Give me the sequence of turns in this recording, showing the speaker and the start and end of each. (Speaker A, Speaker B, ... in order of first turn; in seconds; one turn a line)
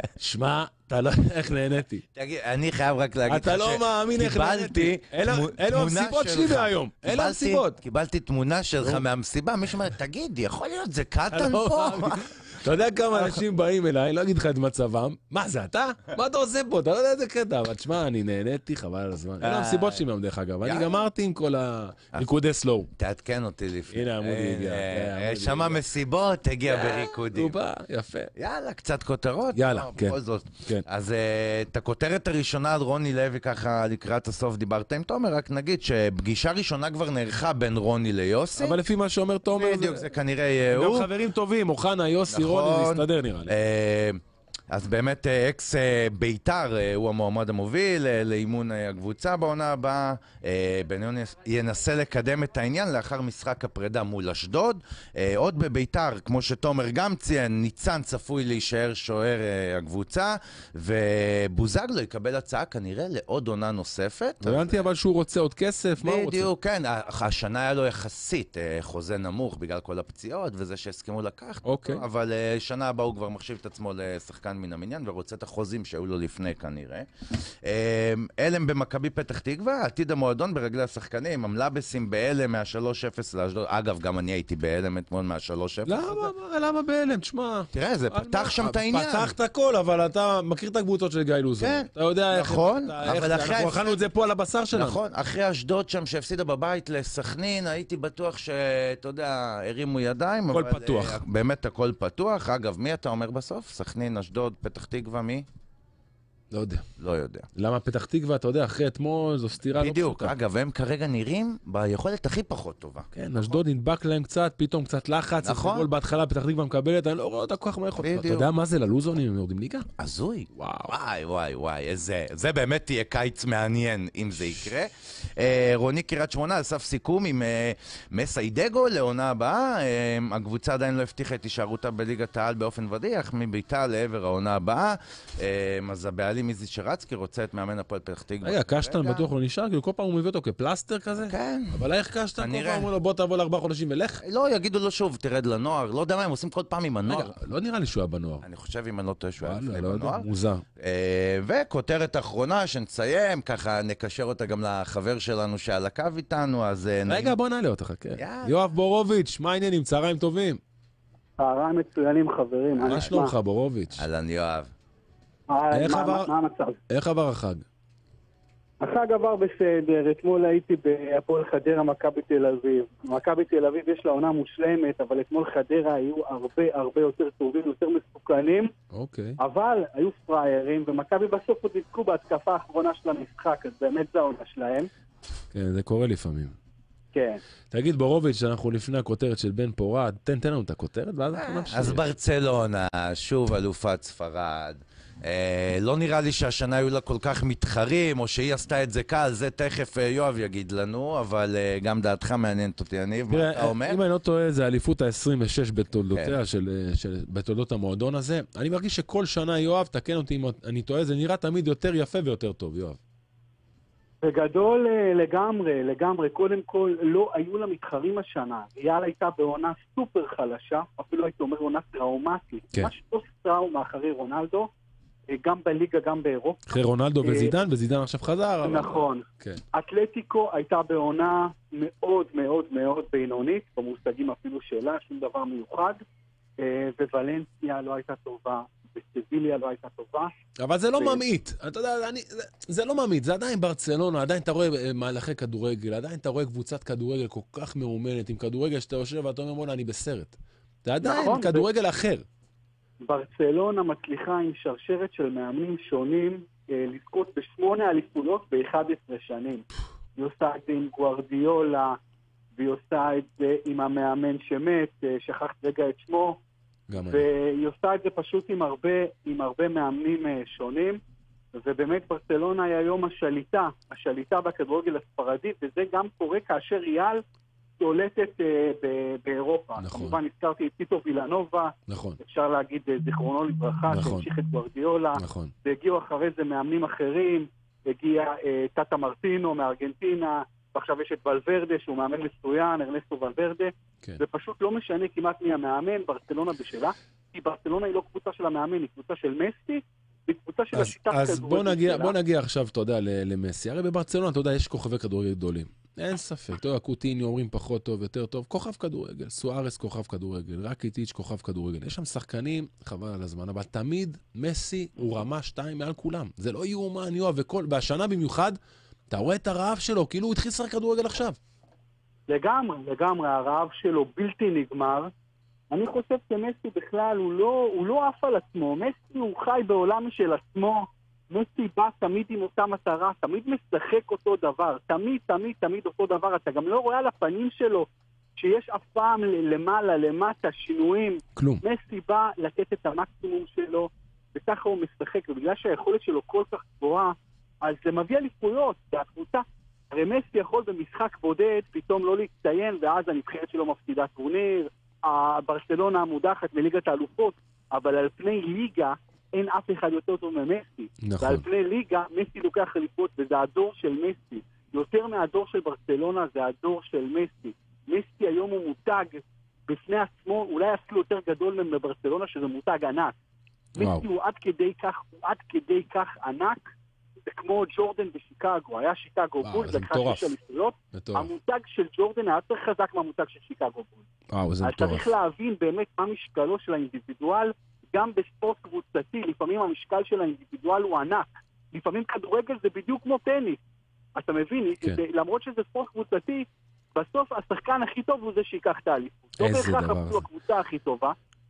Speaker A: 0.2-2.0
Speaker B: 2.1-12.2
Speaker A: 3.3-7.8
Speaker A: 11.3-22.9
Speaker B: 13.1-13.4
Speaker B: 19.4-20.0
Speaker B: 20.6-21.0
Speaker B: 23.0-27.6
Speaker A: 23.9-25.8
Speaker A: 26.7-28.3
Speaker B: 28.4-38.8
Speaker A: 29.6-30.9
Speaker A: 38.6-40.0
Speaker B: 39.5-41.1
Speaker A: 40.7-43.5
Speaker B: 42.3-44.2
Speaker B: 44.7-64.9
Speaker A: 64.4-66.5
Speaker B: 66.0-77.1
Speaker A: 71.6-72.0
Speaker B: 77.6-86.3
Speaker A: 85.9-95.0
Speaker B: 87.7-89.3
Speaker B: 91.6-94.0
Speaker B: 94.7-105.5
Speaker A: 100.5-101.2
Speaker A: 106.5-106.8
Speaker B: 107.0-107.5
Speaker A: 107.5-110.3
Speaker B: 109.8-113.1
Speaker A: 113.1-119.9
Speaker B: 115.4-115.9
Speaker B: 118.0-118.5
Speaker B: 120.0-139.3
Speaker A: 120.5-120.9
Speaker A: 138.4-144.2
Speaker B: 141.3-141.8
Speaker B: 142.4-142.9
Speaker B: 144.2-147.4
Speaker A: 147.1-148.5
Speaker B: 148.4-150.3
Speaker A: 149.4-150.6
Speaker B: 150.8-157.4
Speaker A: 157.1-160.6
Speaker B: 158.2-158.6
Speaker C: 161.4-163.3
Speaker B: 162.8-163.3
Speaker A: 162.8-164.0
Speaker B: 164.0-164.7
Speaker C: 165.5-166.8
Speaker A: 165.7-166.3
Speaker A: 166.9-167.7
Speaker C: 168.8-178.7
Speaker A: 178.9-179.4
Speaker C: 179.4-184.9
Speaker A: 185.5-186.6
Speaker C: 187.1-187.4
Speaker A: 187.7-192.0
Speaker B: 191.3-204.0
Speaker A: 203.3-213.0
Speaker C: 214.2-224.7
Speaker C: 225.3-226.6
Speaker A: 226.7-229.6
Speaker C: 227.2-227.5
Speaker C: 228.6-236.0
Speaker C: 236.6-240.3
Speaker A: 240.6-252.2
Speaker C: 251.0-251.7
Speaker C: 253.1-259.6
Speaker C: 260.2-262.0
Speaker C: 262.6-266.4
Speaker A: 266.9-267.3
Speaker C: 267.0-271.0
Speaker C: 271.6-277.2
Speaker C: 277.8-302.2
Speaker A: 279.8-280.2
Speaker A: 281.9-282.2
Speaker A: 283.9-284.3
Speaker A: 285.2-285.5
Speaker A: 300.7-318.6
Speaker A: 319.1-321.4
Speaker C: 322.3-325.1
Speaker C: 325.7-373.1
Speaker A: 341.4-341.6
Speaker A: 361.0-361.4
Speaker A: 373.8-374.1
Speaker C: 373.8-376.6
Speaker C: 377.2-384.0
Speaker A: 379.4-380.3
Speaker A: 380.9-381.3
Speaker A: 384.3-385.1
Speaker C: 384.6-393.6
Speaker C: 394.2-401.1
Speaker A: 399.4-400.3